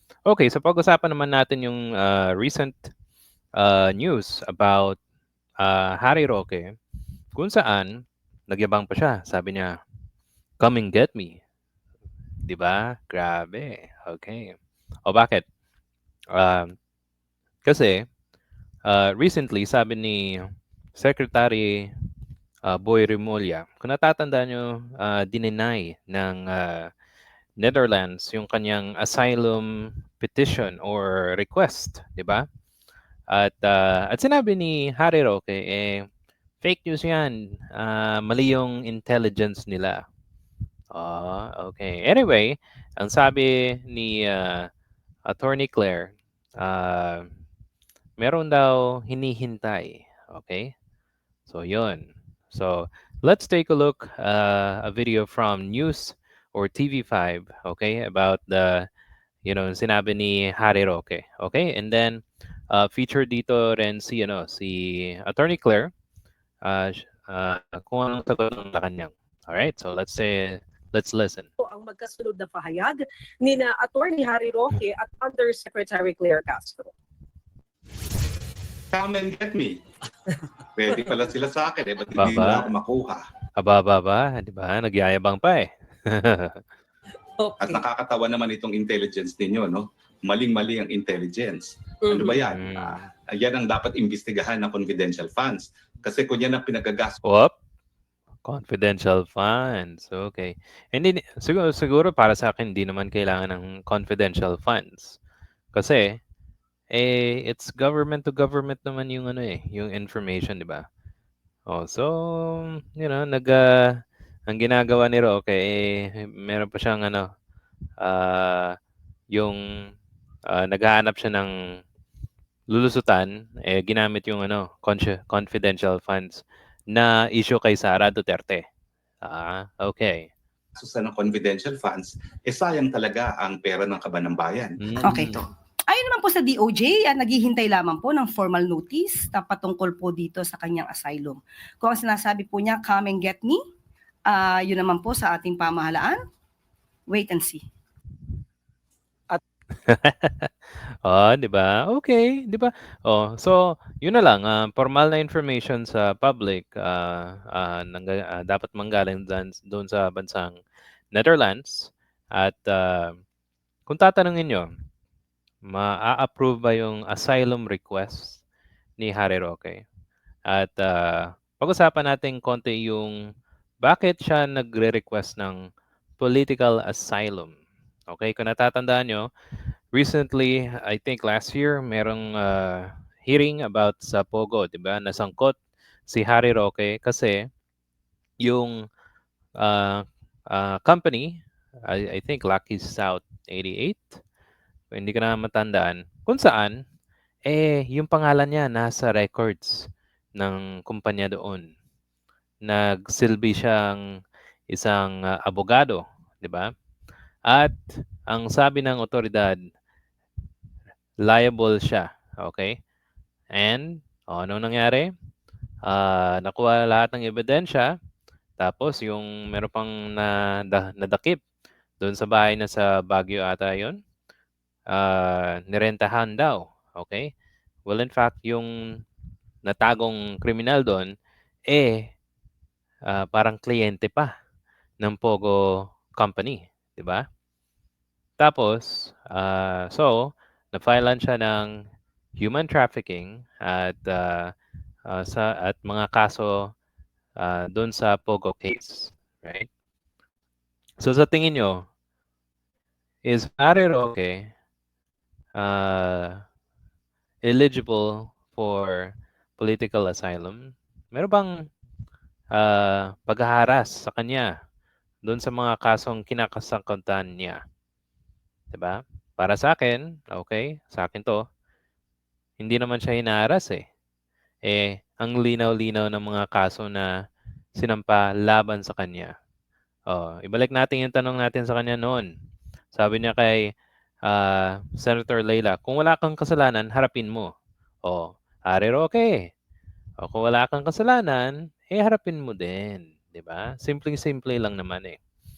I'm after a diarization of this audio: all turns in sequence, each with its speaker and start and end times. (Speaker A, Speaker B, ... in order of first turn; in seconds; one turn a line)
Speaker A: 0.3-2.9
Speaker A: 3.6-5.0
Speaker A: 5.6-6.7
Speaker A: 7.3-9.8
Speaker A: 10.6-11.4
Speaker A: 12.4-14.5
Speaker A: 15.1-15.5
Speaker A: 16.3-16.8
Speaker A: 17.6-18.1
Speaker A: 18.9-21.9
Speaker A: 22.6-26.9
Speaker A: 27.6-32.5
Speaker A: 33.3-36.1
Speaker A: 36.6-40.0
Speaker A: 40.9-44.7
Speaker A: 45.3-47.3
Speaker A: 48.2-50.7
Speaker A: 51.5-58.9
Speaker A: 59.5-65.9
Speaker A: 66.6-71.5
Speaker B: 71.6-76.9
Speaker C: 78.9-79.8
Speaker C: 80.8-83.2
Speaker A: 82.2-82.7
Speaker A: 83.6-86.6
Speaker B: 87.4-87.8
Speaker C: 87.6-97.2
Speaker B: 92.1-92.3
Speaker A: 92.5-93.1
Speaker A: 97.2-97.5
Speaker A: 98.5-105.2
Speaker A: 105.7-106.2
Speaker A: 106.9-110.8
Speaker A: 111.7-117.3
Speaker A: 118.0-118.8
Speaker A: 119.3-119.6
Speaker A: 120.5-121.5
Speaker A: 122.7-128.7
Speaker A: 129.2-130.3
Speaker C: 130.8-134.8
Speaker A: 134.8-135.4
Speaker D: 135.0-135.4
Speaker D: 135.9-143.6
Speaker D: 144.3-146.2
Speaker D: 147.1-147.6
Speaker A: 149.9-150.5
Speaker A: 151.0-160.6
Speaker A: 161.1-163.2
Speaker A: 163.9-164.7
Speaker A: 165.6-168.4
Speaker A: 169.0-169.8
Speaker A: 170.5-173.2
Speaker A: 173.8-175.7
Speaker A: 176.2-177.5
Speaker A: 178.1-179.3
Speaker A: 179.9-187.5
Speaker A: 188.4-188.8
Speaker A: 189.6-194.2
Speaker A: 194.9-196.8
Speaker A: 197.5-201.7
Speaker A: 202.7-204.0
Speaker A: 204.7-206.7
Speaker A: 207.5-209.6
Speaker A: 211.2-212.8
Speaker A: 213.5-215.1
Speaker A: 215.8-217.9
Speaker A: 218.6-221.4
Speaker A: 222.0-224.0
Speaker A: 224.9-227.3
Speaker A: 227.9-229.0
Speaker A: 229.7-231.2
Speaker A: 231.7-232.1
Speaker A: 233.1-234.3
Speaker A: 235.0-237.2
Speaker A: 238.4-241.8
Speaker A: 242.4-244.5
Speaker A: 245.1-246.7
Speaker A: 247.4-249.7
Speaker A: 251.0-251.9
Speaker A: 253.2-254.5
Speaker A: 255.6-256.4
Speaker A: 257.4-261.5
Speaker A: 262.5-264.5
Speaker A: 265.2-267.6
Speaker A: 268.7-271.4
Speaker A: 272.6-273.8
Speaker A: 274.6-277.1
Speaker A: 277.8-279.3
Speaker A: 280.1-282.3
Speaker A: 282.9-283.7
Speaker A: 284.3-287.5
Speaker A: 288.1-289.5
Speaker A: 290.2-295.2